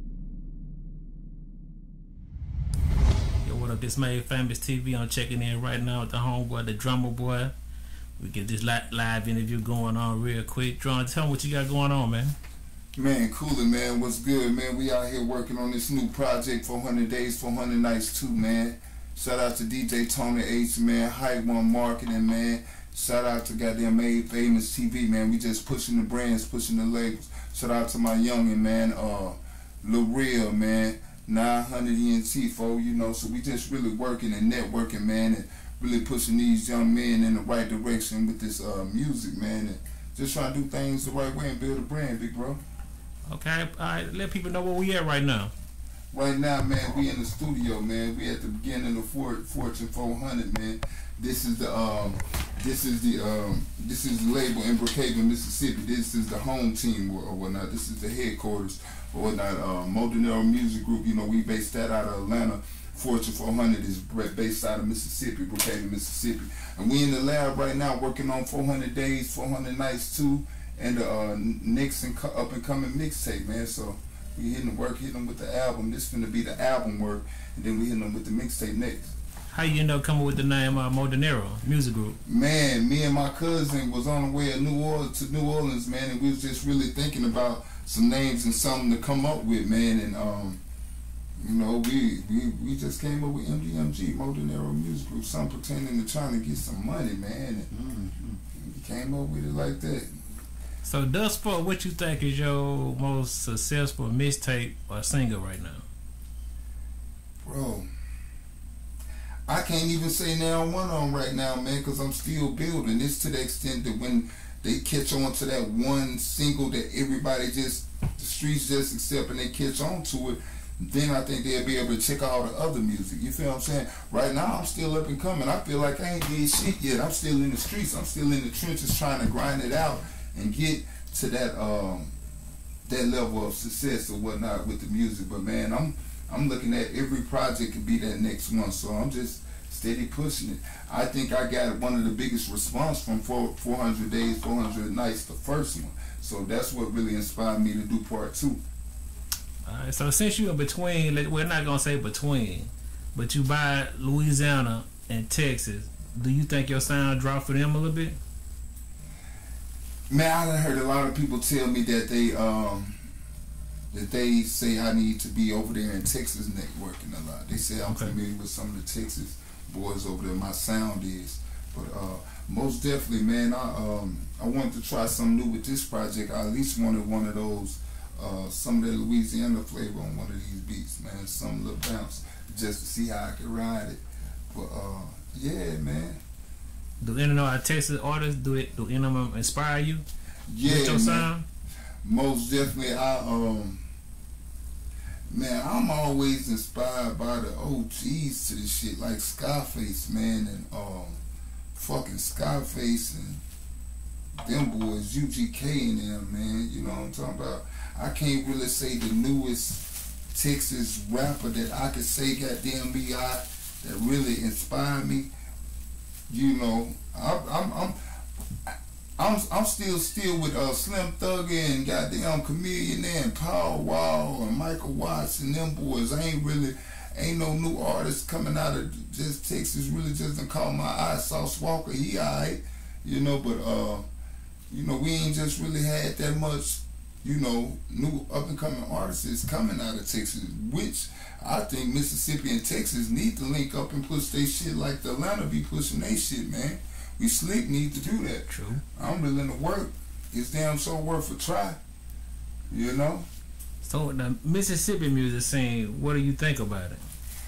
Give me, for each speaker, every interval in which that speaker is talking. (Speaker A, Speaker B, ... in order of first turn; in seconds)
Speaker A: 3.4-7.5, 8.2-12.3, 43.3-45.5, 79.5-82.2, 100.8-105.8, 149.7-158.2, 167.8-168.2, 187.0-190.0, 190.6-191.4, 248.5-248.8, 253.8-257.0
Speaker B: 12.9-42.6, 46.1-79.1, 82.2-90.6, 91.4-97.9, 98.5-100.1, 107.4-107.9, 109.5-132.1, 132.8-148.6, 160.1-163.0, 163.9-186.2, 190.5-191.3, 192.0-193.8, 195.3-201.2, 201.7-203.4, 204.4-215.3, 216.3-218.0, 218.7-234.0, 234.7-251.8, 252.7-253.3